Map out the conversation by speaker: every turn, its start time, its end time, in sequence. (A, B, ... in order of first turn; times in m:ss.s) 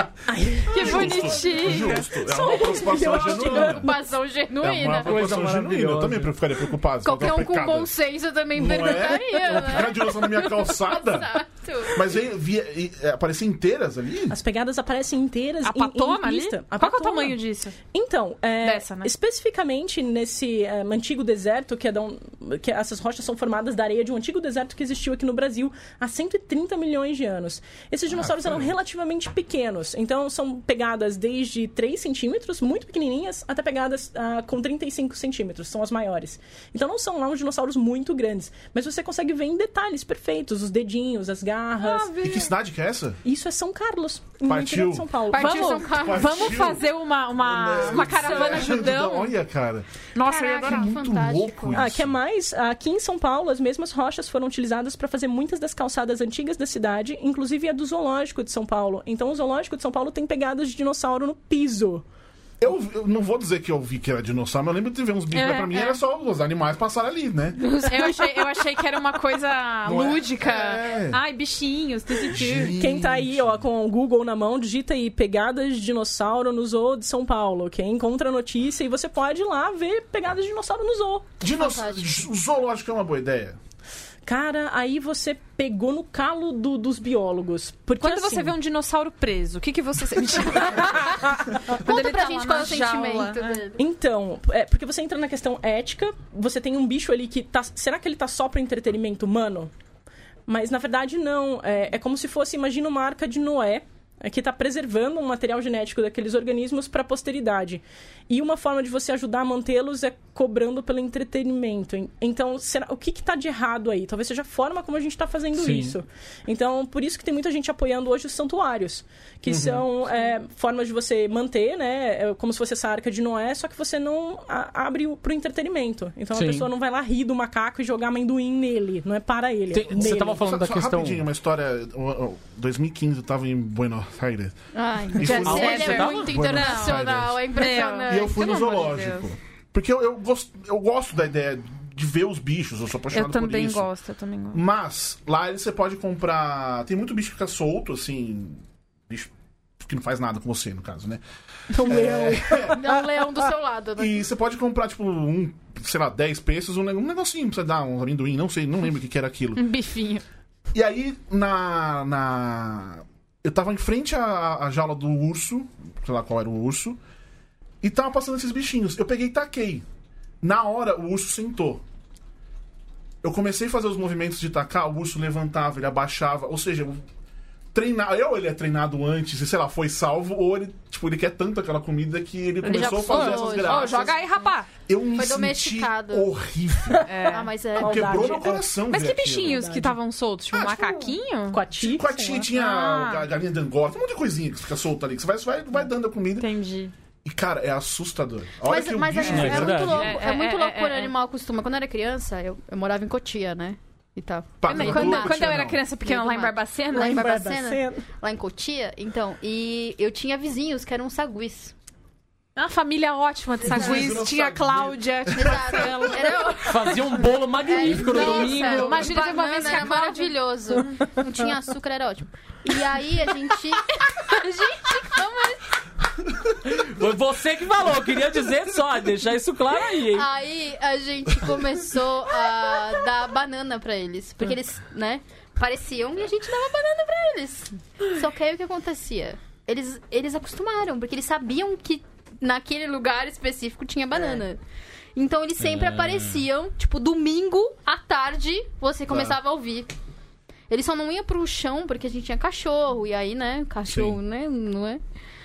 0:00.2-0:01.6 A
0:00.7-0:02.2 B
0:00.7-0:04.0 C
0:02.2-0:03.9 A
0:02.4-0:05.2 D
0:04.5-0:07.9 C
0:05.0-0:06.3 E
0:07.0-0:12.0 D
0:08.5-0:14.4 C
0:14.3-0:42.2 A
0:15.6-0:17.8 B
0:18.6-0:19.1 B
0:28.1-0:28.7 C
0:41.8-0:42.5 B
0:42.2-0:43.2 C
0:43.2-0:45.9 A
0:44.4-0:45.2 C
0:45.3-0:46.7 D
0:45.3-0:49.3 B
0:45.9-0:46.9 C
0:47.4-0:49.9 C
0:47.9-0:48.8 D
0:50.2-0:51.0 B
0:50.2-0:51.8 D
0:50.6-0:52.2 C
0:51.7-1:02.0 A
1:02.6-1:07.8 C
1:05.3-1:06.0 B
1:07.7-1:08.2 D
1:07.8-1:12.8 B
1:09.8-1:11.2 C
1:12.3-1:13.6 C
1:12.7-1:21.3 A
1:21.4-1:23.6 C
1:21.5-1:22.2 D
1:24.3-1:28.6 A
1:28.0-1:33.6 B
1:31.0-1:31.6 A
1:31.8-1:33.8 D
1:33.8-1:39.7 A
1:40.5-2:10.4 A
1:55.6-1:56.0 E
1:59.5-1:59.8 C
2:06.3-2:06.7 E
2:09.7-2:11.2 E
2:10.4-2:14.6 C
2:14.7-2:18.7 D
2:15.1-2:23.9 C
2:15.2-2:19.3 B
2:15.2-2:16.3 E
2:23.1-2:24.6 B
2:24.5-2:31.2 C
2:31.7-2:33.1 A
2:31.8-2:32.9 C
2:32.7-2:34.2 D
2:34.0-2:39.7 C
2:39.6-2:40.2 B
2:40.7-2:47.0 C
2:47.8-2:49.8 C
2:50.4-2:51.8 C
2:53.2-2:57.0 C
2:57.7-3:04.2 C
3:02.6-3:04.7 B
3:02.8-3:04.5 D
3:04.9-3:07.1 C
3:05.2-3:06.3 D
3:06.9-3:08.7 A
3:07.1-3:07.5 B
3:07.3-3:08.4 D
3:07.8-3:09.7 C
3:08.9-3:11.6 B
3:09.4-3:10.0 A
3:10.5-3:11.2 C
3:11.5-3:12.5 A
3:11.7-3:16.5 C
3:12.5-3:13.3 B
3:16.4-3:16.9 B
3:17.2-3:20.2 C
3:18.6-3:31.7 D
3:19.3-3:21.1 B
3:19.3-3:20.0 E
3:24.6-3:25.8 C
3:24.7-3:27.2 B
3:26.9-3:28.0 A
3:32.6-3:36.4 B
3:33.6-3:36.2 C
3:33.8-3:34.1 D
3:35.3-3:45.7 D
3:36.6-3:39.0 E
3:38.0-3:40.9 B
3:46.6-3:50.3 E
3:50.0-4:04.6 D
4:05.2-4:09.9 D
4:05.6-4:06.4 E
4:09.1-4:09.4 C
4:10.7-4:15.0 D
4:13.9-4:14.2 C